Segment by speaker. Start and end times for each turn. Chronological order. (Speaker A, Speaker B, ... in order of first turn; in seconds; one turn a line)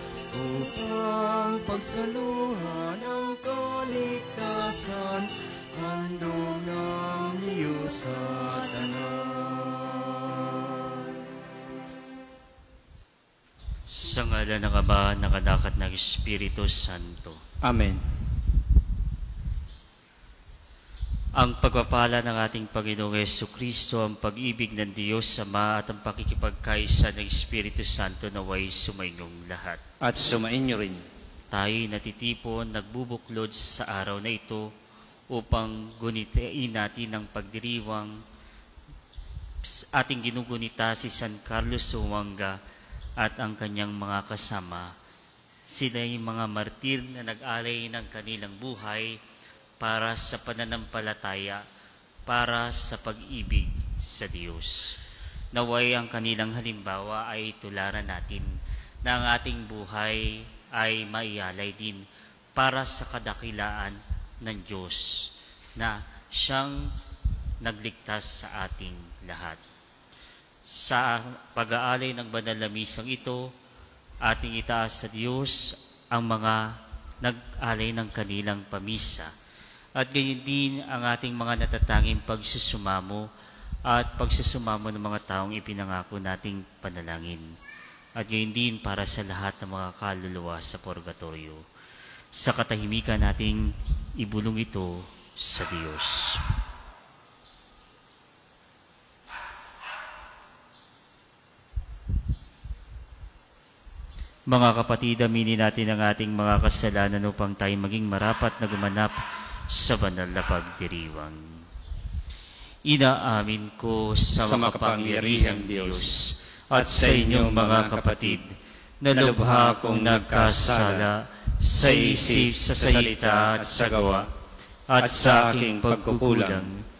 Speaker A: 0.3-11.0
Speaker B: 13.9-17.4
Speaker C: 17.6-18.0
Speaker B: 21.3-29.8
Speaker C: 30.0-31.0
Speaker B: 31.5-34.7
Speaker B: 35.3-38.2
Speaker B: 39.6-42.5
Speaker B: 43.2-44.9
Speaker B: 45.7-49.2
Speaker B: 49.8-51.6
Speaker B: 52.2-55.0
Speaker B: 55.5-58.5
Speaker B: 59.0-62.0
Speaker B: 62.5-66.9
Speaker B: 67.6-69.6
Speaker B: 70.7-73.5
Speaker B: 74.2-79.3
Speaker B: 80.0-83.2
Speaker B: 83.8-87.5
Speaker B: 88.2-91.6
Speaker B: 92.3-96.4
Speaker B: 104.5-109.2
Speaker B: 109.7-111.6
Speaker B: 112.8-124.2
Speaker C: 114.4-116.1
Speaker C: 116.7-118.4
Speaker C: 119.1-121.1
Speaker C: 121.8-124.3
Speaker B: 124.9-126.8
Speaker C: 125.0-126.7